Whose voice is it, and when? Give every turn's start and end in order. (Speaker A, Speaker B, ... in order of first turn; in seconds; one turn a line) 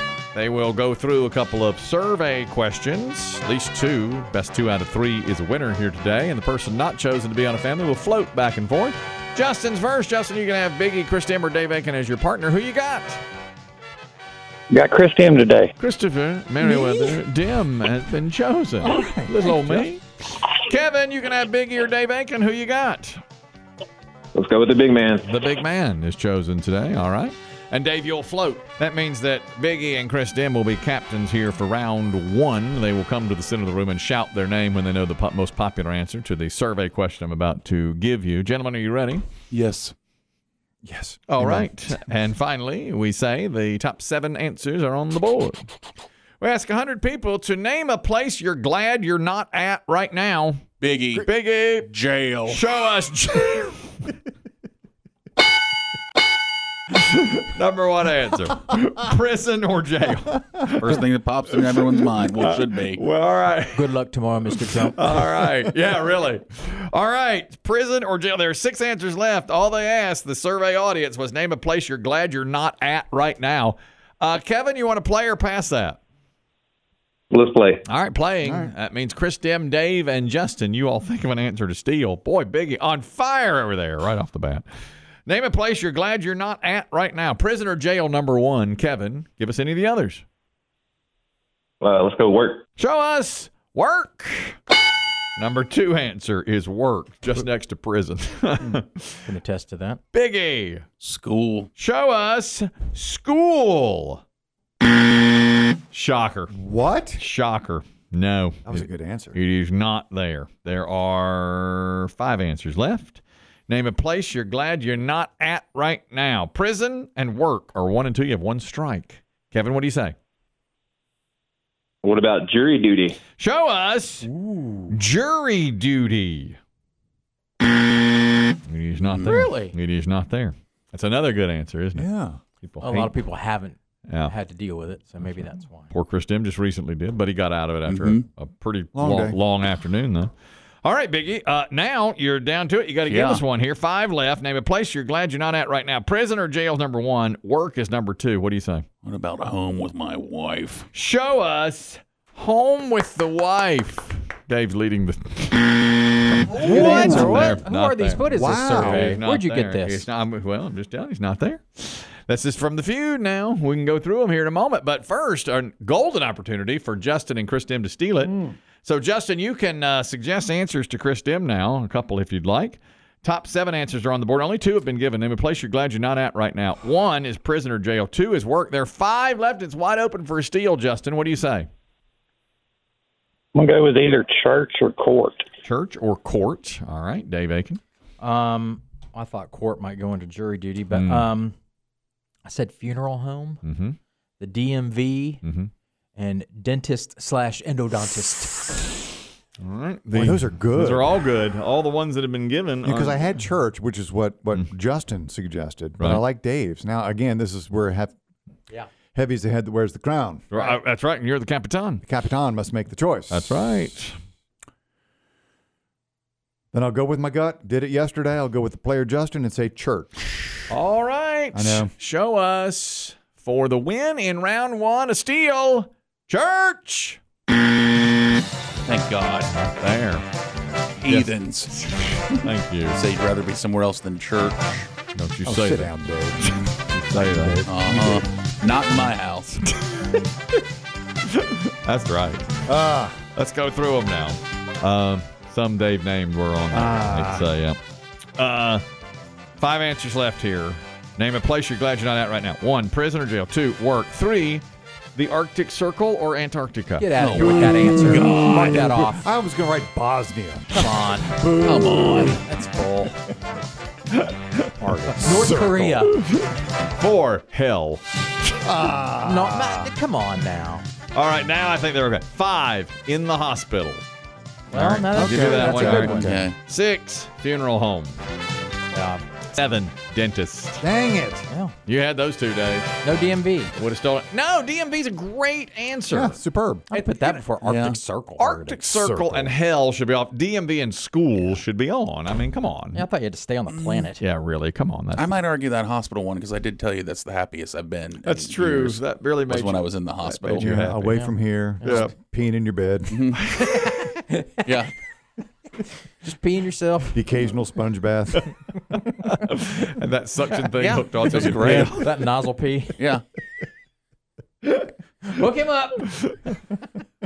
Speaker A: 0.3-13.2
Speaker B: 14.7-15.7
Speaker A: 15.8-23.2
Speaker C: 16.6-17.1
Speaker C: 18.8-19.9
Speaker B: 24.3-25.3
Speaker A: 25.2-39.2
Speaker D: 39.5-39.9
Speaker C: 40.8-42.0
Speaker A: 41.3-45.7
Speaker A: 46.4-50.6
Speaker D: 50.8-51.3
Speaker A: 51.2-51.9
Speaker D: 51.9-52.6
Speaker A: 52.5-53.9
Speaker A: 56.9-61.0
Speaker D: 60.8-63.0
Speaker A: 62.1-63.9
Speaker E: 63.7-65.2
Speaker A: 64.8-76.0
Speaker B: 77.3-77.8
Speaker A: 77.8-84.6
Speaker C: 78.4-78.7
Speaker A: 85.3-90.2
Speaker B: 91.8-92.6
Speaker A: 92.8-94.6
Speaker A: 95.4-99.3
Speaker E: 99.2-100.0
Speaker A: 100.1-100.8
Speaker D: 101.0-101.7
Speaker A: 101.8-104.2
Speaker A: 105.9-106.5
Speaker C: 106.5-107.2
Speaker A: 107.2-120.2
Speaker C: 108.7-109.4
Speaker B: 122.0-123.2
Speaker A: 123.3-124.3
Speaker C: 124.2-125.0
Speaker A: 124.9-126.6
Speaker A: 128.7-132.1
Speaker D: 129.0-129.5
Speaker E: 129.2-129.7
Speaker C: 131.9-132.4
Speaker A: 132.6-133.1
Speaker E: 132.8-135.9
Speaker A: 134.1-134.3
Speaker A: 135.9-140.3
Speaker D: 137.8-138.2
Speaker C: 138.9-139.4
Speaker A: 140.8-148.8
Speaker D: 143.1-143.4
Speaker D: 149.0-150.8
Speaker A: 150.9-181.7
Speaker C: 156.5-157.6
Speaker E: 156.5-160.1
Speaker C: 158.3-159.2
Speaker C: 168.2-168.5
Speaker B: 183.5-185.4
Speaker A: 185.6-187.8
Speaker E: 188.2-191.5
Speaker A: 190.9-191.3
Speaker E: 192.4-193.6
Speaker A: 193.6-194.0
Speaker E: 194.4-195.4
Speaker A: 195.4-195.7
Speaker E: 196.2-198.9
Speaker A: 199.6-203.3
Speaker C: 200.1-201.1
Speaker C: 202.8-208.1
Speaker C: 209.1-210.5
Speaker A: 210.5-212.0
Speaker C: 212.0-213.5
Speaker A: 213.3-214.2
Speaker C: 216.7-220.5
Speaker A: 220.7-227.2
Speaker C: 221.5-221.9
Speaker D: 228.8-229.5
Speaker A: 229.5-230.2
Speaker D: 231.0-232.2
Speaker A: 231.8-233.0
Speaker D: 232.9-234.9
Speaker A: 235.1-235.9
Speaker C: 235.4-238.3
Speaker A: 236.4-237.6
Speaker D: 237.7-239.6
Speaker A: 239.8-240.1
Speaker A: 241.2-242.6
Speaker C: 242.7-243.2
Speaker A: 243.3-247.8
Speaker C: 246.7-247.5
Speaker A: 248.4-248.8
Speaker A: 249.6-257.1
Speaker E: 257.0-259.2
Speaker D: 257.2-258.7
Speaker C: 257.7-262.4
Speaker E: 260.7-261.5
Speaker D: 261.6-262.8
Speaker E: 262.5-263.1
Speaker A: 264.1-265.1
Speaker C: 264.8-266.1
Speaker E: 265.2-266.2
Speaker A: 266.2-268.0
Speaker C: 268.6-269.9
Speaker E: 269.2-270.9
Speaker A: 271.1-274.0
Speaker E: 274.7-276.5
Speaker A: 274.7-278.2
Speaker C: 275.0-276.3
Speaker D: 276.2-276.5
Speaker E: 278.9-279.2
Speaker A: 279.5-280.8
Speaker C: 280.8-281.4
Speaker E: 281.5-281.7
Speaker A: 281.9-282.9
Speaker E: 283.0-283.7
Speaker A: 283.7-286.4
Speaker C: 286.1-286.9
Speaker E: 286.9-288.8
Speaker D: 287.6-288.0
Speaker A: 288.4-293.0
Speaker C: 288.9-289.5
Speaker E: 292.9-294.2
Speaker D: 293.7-294.1
Speaker A: 294.2-295.3
Speaker D: 295.1-300.7
Speaker A: 298.2-301.1
Speaker C: 300.5-303.3
Speaker E: 301.0-302.1
Speaker A: 301.8-302.1
Speaker D: 303.1-303.4
Speaker A: 303.5-303.9
Speaker E: 303.6-304.7
Speaker D: 304.6-304.9
Speaker E: 306.2-307.2
Speaker C: 307.1-308.5
Speaker A: 309.2-312.1
Speaker D: 310.7-312.1
Speaker E: 311.5-313.0
Speaker D: 313.0-313.2
Speaker E: 315.2-316.1
Speaker A: 316.1-316.4